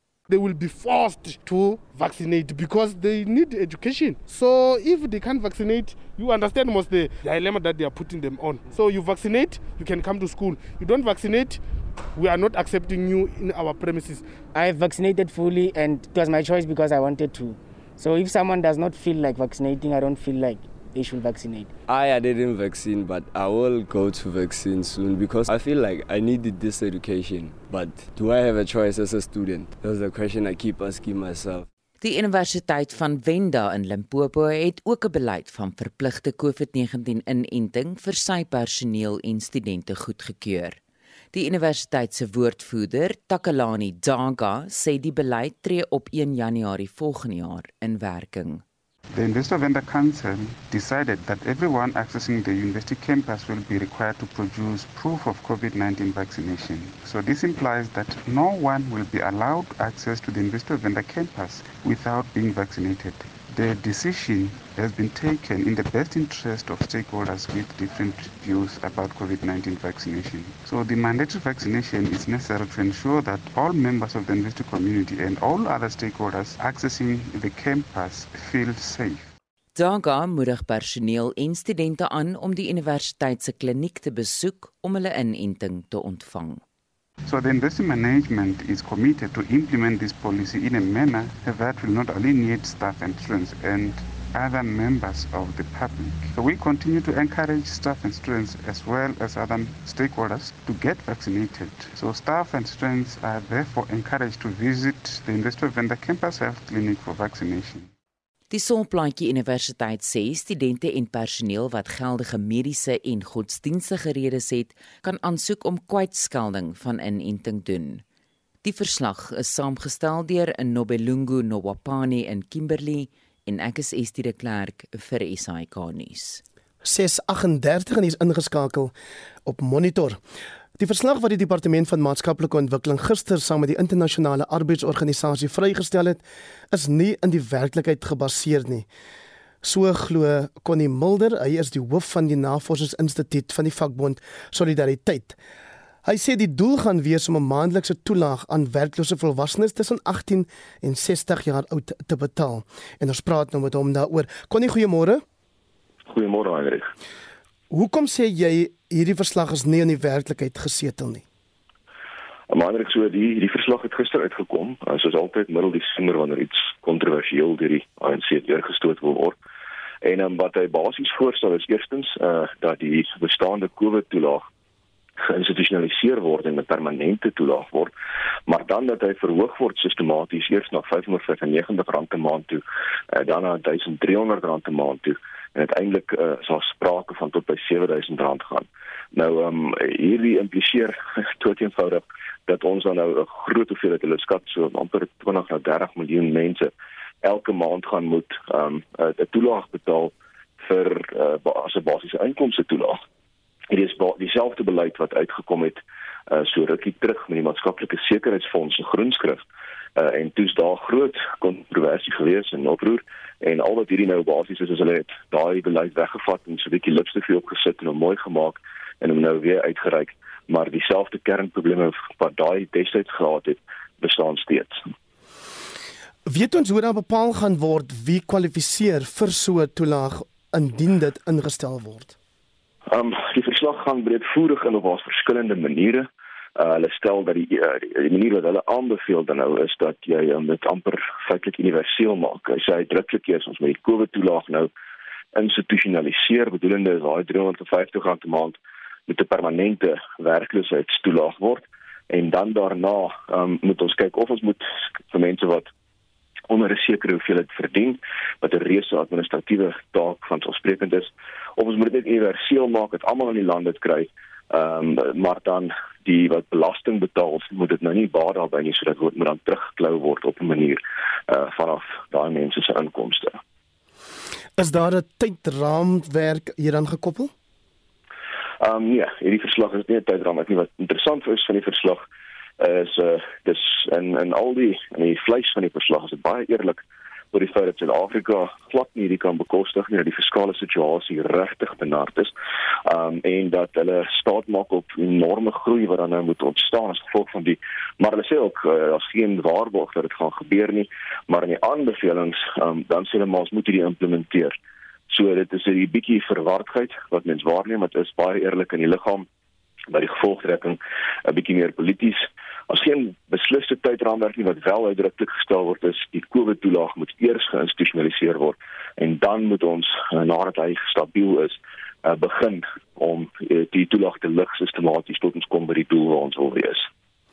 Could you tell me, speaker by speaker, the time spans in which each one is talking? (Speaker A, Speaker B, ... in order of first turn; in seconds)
Speaker A: 0.3-14.3
Speaker B: 14.5-21.7
Speaker C: 21.9-31.7
Speaker D: 32.0-40.8, 41.3-48.6, 79.8-86.6, 108.5-118.0, 118.6-126.4
Speaker E: 49.1-79.3, 87.2-107.9
Speaker F: 126.8-128.9, 129.4-130.2, 130.8-138.9, 139.6-145.4, 146.1-155.2, 157.7-161.2, 226.3-232.2, 274.6-277.3
Speaker G: 156.1-156.9, 162.5-169.4, 170.0-174.5, 175.2-177.9, 178.5-182.6, 183.2-196.7, 197.2-203.0, 203.7-209.4, 210.0-224.8, 232.9-244.7, 245.3-255.7, 256.5-273.4, 278.6-282.0, 282.6-286.8, 287.3-292.3, 292.9-304.6, 305.1-309.3, 309.9-326.9